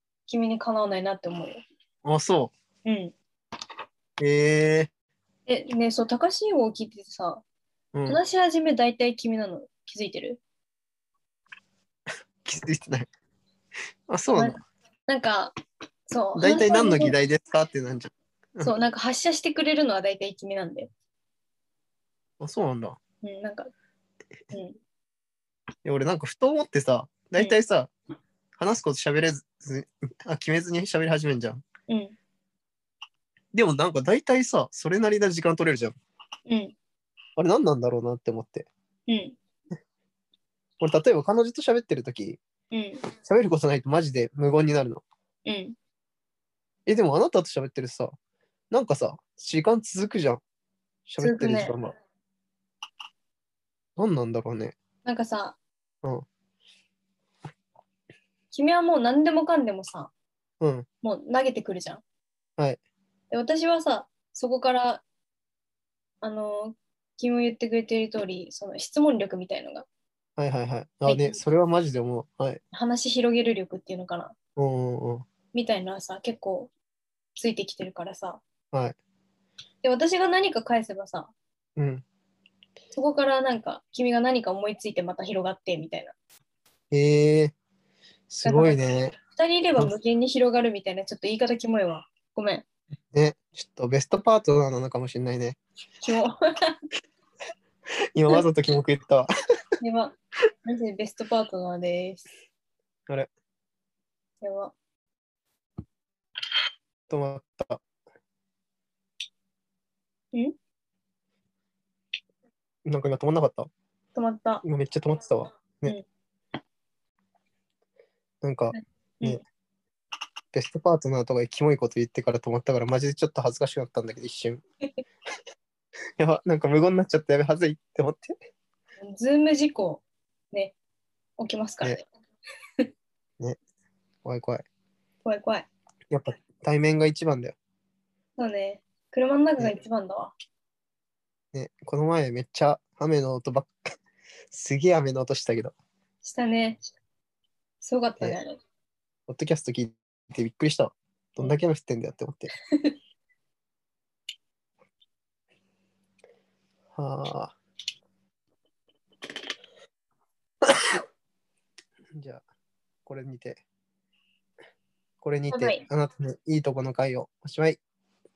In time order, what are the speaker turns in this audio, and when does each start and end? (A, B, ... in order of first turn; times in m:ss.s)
0:00.3-0:01.6 A
0:02.0-0:02.5 B
0:02.8-0:03.1 A
0:04.2-0:04.9 B
0:05.5-0:07.4 A
0:07.9-0:08.2 B
0:08.1-0:10.4 A
0:12.4-0:13.1 B
0:14.1-0:14.6 B
0:14.4-0:15.6 A
0:16.1-0:17.2 A
0:16.4-0:18.8 B
0:18.6-0:20.9 A
0:22.4-0:23.0 B
0:23.2-0:23.7 A
0:24.5-0:24.8 A
0:25.8-0:27.9 B
0:28.6-0:31.6 B
0:31.9-0:32.2 A
0:33.5-0:36.0 B
0:36.5-0:36.7 A
0:37.4-0:38.7 B
0:39.1-0:39.4 A
0:40.8-0:42.4 B
0:42.7-0:43.0 A
0:43.2-0:45.0 B
0:45.5-0:45.8 A
0:46.9-0:48.2 B
0:48.7-0:50.4 B
0:51.1-0:51.9 B
0:51.2-0:51.7 A
0:54.0-0:54.8 B
0:55.0-0:55.6 A
0:58.5-1:00.1 A
1:00.6-1:00.9 B
1:01.0-1:02.0 A
1:03.3-1:05.0 A
1:06.2-1:09.9 A
1:10.4-1:12.6 B
1:11.1-1:11.4 A
1:12.7-1:14.4 A
1:14.6-1:15.3 B
1:15.5-1:16.7 A
1:17.4-1:18.4 A
1:19.8-1:21.3 A
1:21.8-1:22.0 B
1:22.9-1:26.2 A
1:26.9-1:27.6 B
1:28.3-1:29.2 B
1:28.4-1:28.8 A
1:29.3-1:32.6 A
1:33.1-1:35.6 B
1:36.0-1:36.8 A
1:38.2-1:39.3 B
1:39.8-1:42.2 A
1:44.4-1:44.7 A
1:47.1-1:47.8 B
1:52.9-1:53.7 B
1:54.2-1:54.6 A
1:54.6-1:56.0 B
1:58.4-1:59.4 B
1:58.7-1:59.4 A
2:00.5-2:04.6 B
2:06.2-2:08.3 B
2:09.0-2:10.8 A
2:11.4-2:12.0 A
2:14.2-2:14.6 B
2:15.2-2:15.7 A
2:16.1-2:17.6 B
2:18.4-2:20.3 A
2:21.5-2:23.9 B
2:24.5-2:25.8 B
2:26.2-2:26.8 A
2:27.8-2:28.6 A
2:29.3-2:32.5 B
2:37.0-2:37.6 B
2:42.2-2:42.4 B
2:43.1-2:43.6 B
2:45.2-2:47.8 B
2:45.5-2:45.8 A